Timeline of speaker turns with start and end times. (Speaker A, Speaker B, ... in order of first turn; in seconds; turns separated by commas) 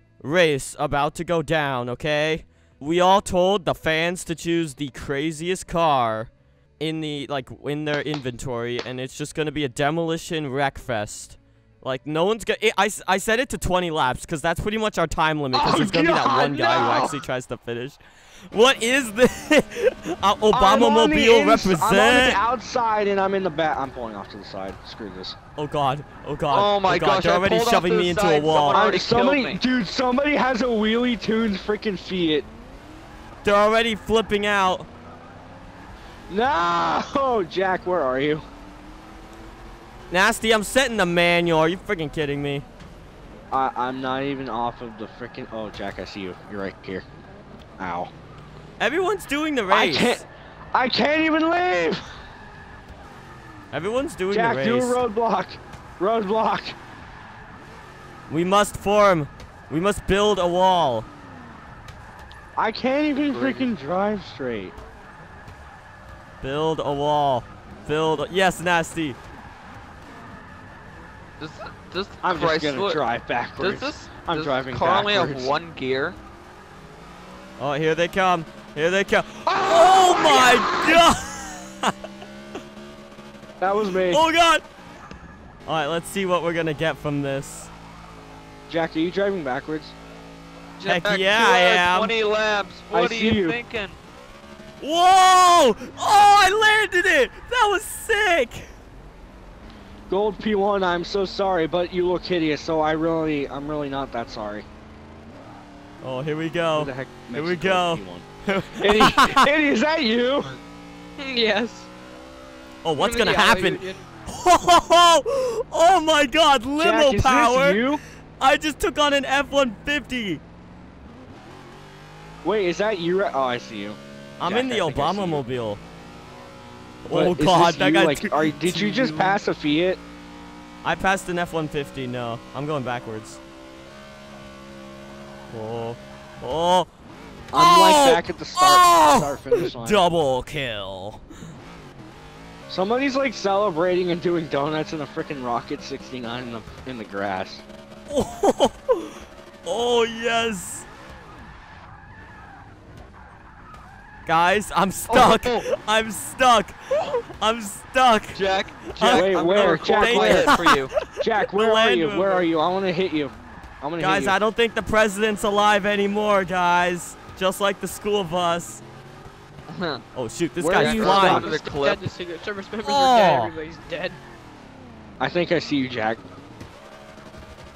Speaker A: 0.2-18.0, Speaker B: 15.5-17.2, Speaker C: 16.2-17.1, Speaker A: 18.5-22.4, Speaker B: 20.5-25.4, Speaker A: 25.6-29.0, Speaker C: 26.5-29.6, Speaker B: 28.7-32.5, Speaker A: 33.4-34.9, Speaker B: 36.3-38.4, Speaker A: 40.1-42.6, Speaker B: 43.5-47.0, Speaker B: 47.8-48.1, Speaker A: 48.8-50.2, Speaker B: 49.7-52.0, Speaker A: 53.7-55.0, Speaker B: 54.3-56.8, Speaker A: 58.3-61.1, Speaker B: 62.6-64.7, Speaker C: 63.3-63.6, Speaker A: 66.4-69.2, Speaker C: 71.4-73.0, Speaker B: 72.2-75.6, Speaker C: 73.6-76.2, Speaker A: 77.6-81.9, Speaker B: 79.5-81.0, Speaker B: 83.6-84.2, Speaker A: 84.1-84.6, Speaker A: 85.7-87.7, Speaker B: 88.7-89.9, Speaker A: 90.8-92.1, Speaker C: 90.8-94.0, Speaker B: 92.9-93.6, Speaker A: 94.8-98.7, Speaker B: 100.1-104.7, Speaker A: 106.0-109.4, Speaker B: 106.7-108.2, Speaker B: 108.8-110.6, Speaker D: 111.2-111.9, Speaker A: 112.8-117.8, Speaker D: 112.9-114.1, Speaker B: 116.8-118.0, Speaker A: 118.4-120.4, Speaker B: 122.4-125.4, Speaker A: 124.4-125.8, Speaker A: 127.0-129.4, Speaker B: 127.1-130.0, Speaker A: 130.8-133.4, Speaker A: 135.5-136.9, Speaker B: 137.5-140.0, Speaker A: 137.5-141.2, Speaker B: 142.7-147.6, Speaker A: 148.1-150.9, Speaker A: 154.2-162.5, Speaker C: 155.1-155.7, Speaker C: 158.3-160.9, Speaker B: 159.0-160.6, Speaker B: 161.2-164.4, Speaker A: 164.0-168.8, Speaker C: 169.7-170.0, Speaker A: 170.1-171.4, Speaker B: 170.6-171.5, Speaker C: 170.7-172.1, Speaker D: 171.3-174.2, Speaker A: 172.8-173.5, Speaker B: 175.2-176.2